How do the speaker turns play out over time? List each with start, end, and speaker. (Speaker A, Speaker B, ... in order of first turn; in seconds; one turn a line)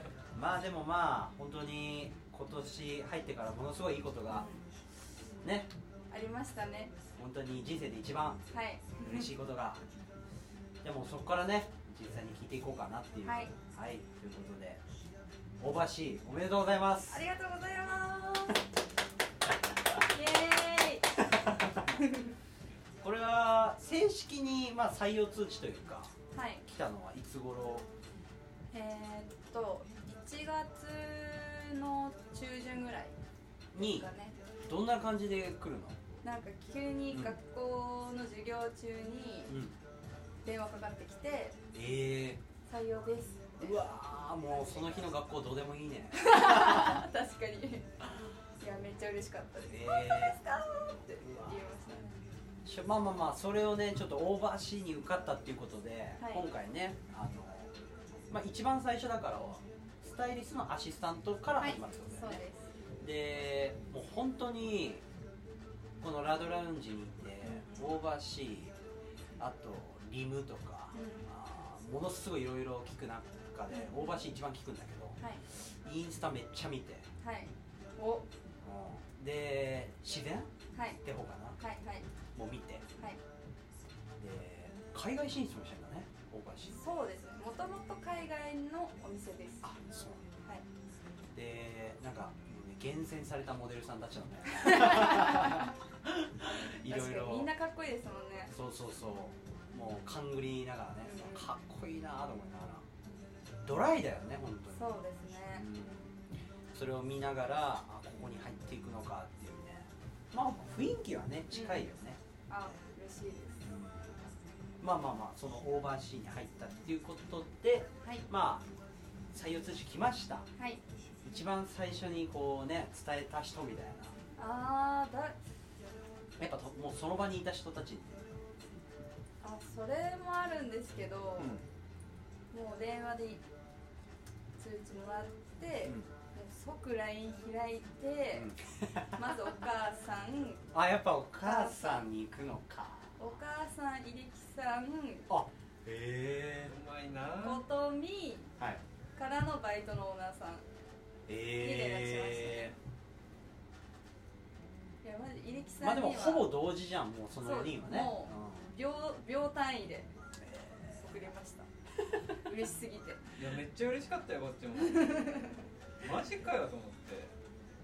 Speaker A: 0.3-4.5
Speaker B: 4.3-4.6
Speaker A: 5.4-5.7
Speaker B: 6.1-6.9
Speaker A: 7.2-8.4
Speaker B: 8.5-9.3
Speaker A: 9.0-9.8
Speaker A: 10.8-14.8
Speaker B: 13.2-13.5
Speaker A: 15.6-17.2
Speaker B: 17.1-18.6
Speaker B: 20.0-21.1
Speaker A: 21.2-21.8
Speaker B: 21.9-22.3
Speaker A: 23.0-27.9
Speaker B: 26.3-26.6
Speaker B: 28.7-33.2
Speaker A: 33.7-34.1
Speaker B: 33.7-34.4
Speaker A: 34.7-36.0
Speaker B: 36.2-39.5
Speaker A: 37.1-37.4
Speaker A: 39.5-39.7
Speaker B: 40.4-41.6
Speaker A: 41.7-42.4
Speaker B: 42.7-43.8
Speaker A: 43.6-47.0
Speaker B: 44.4-45.1
Speaker B: 46.1-48.0
Speaker B: 48.6-52.1
Speaker A: 49.7-50.4
Speaker A: 51.2-51.6
Speaker A: 52.6-57.7
Speaker B: 56.2-56.5
Speaker A: 58.3-62.4
Speaker B: 61.6-62.7
Speaker A: 63.0-65.0
Speaker A: 66.0-68.7
Speaker B: 67.4-67.9
Speaker A: 69.4-77.1
Speaker B: 70.9-71.3
Speaker B: 73.7-74.3
Speaker B: 77.2-78.2
Speaker A: 78.6-80.5
Speaker B: 80.7-81.0
Speaker A: 81.0-81.6
Speaker B: 81.6-82.1
Speaker A: 82.3-82.8
Speaker A: 84.2-86.8
Speaker B: 86.8-89.7
Speaker A: 89.6-90.2
Speaker A: 91.3-97.5
Speaker B: 94.5-95.7
Speaker B: 96.5-98.5
Speaker A: 98.5-102.8
Speaker B: 101.0-101.5
Speaker A: 103.6-104.9
Speaker B: 104.7-105.7
Speaker A: 105.5-106.1
Speaker A: 106.7-112.2
Speaker B: 111.5-111.9
Speaker B: 112.5-113.7
Speaker A: 113.6-114.2
Speaker A: 114.8-118.6
Speaker A: 119.3-120.5
Speaker B: 120.6-120.8
Speaker A: 121.2-124.1
Speaker B: 124.3-125.3
Speaker A: 126.4-128.2
Speaker B: 129.4-131.6
Speaker B: 132.5-133.4
Speaker B: 134.6-138.5
Speaker A: 138.3-139.2
Speaker B: 139.2-140.7
Speaker A: 140.7-143.2
Speaker B: 141.4-142.0
Speaker B: 143.2-145.3
Speaker A: 145.3-146.7
Speaker C: 146.7-147.7
Speaker B: 147.4-148.5
Speaker B: 149.2-150.6
Speaker A: 151.3-152.7
Speaker B: 151.6-152.8
Speaker B: 155.0-156.5
Speaker A: 155.8-158.7
Speaker B: 157.4-160.1
Speaker A: 160.4-161.2
Speaker B: 161.0-161.7
Speaker B: 162.4-163.2
Speaker C: 163.3-165.4
Speaker B: 164.8-165.6
Speaker C: 166.0-167.3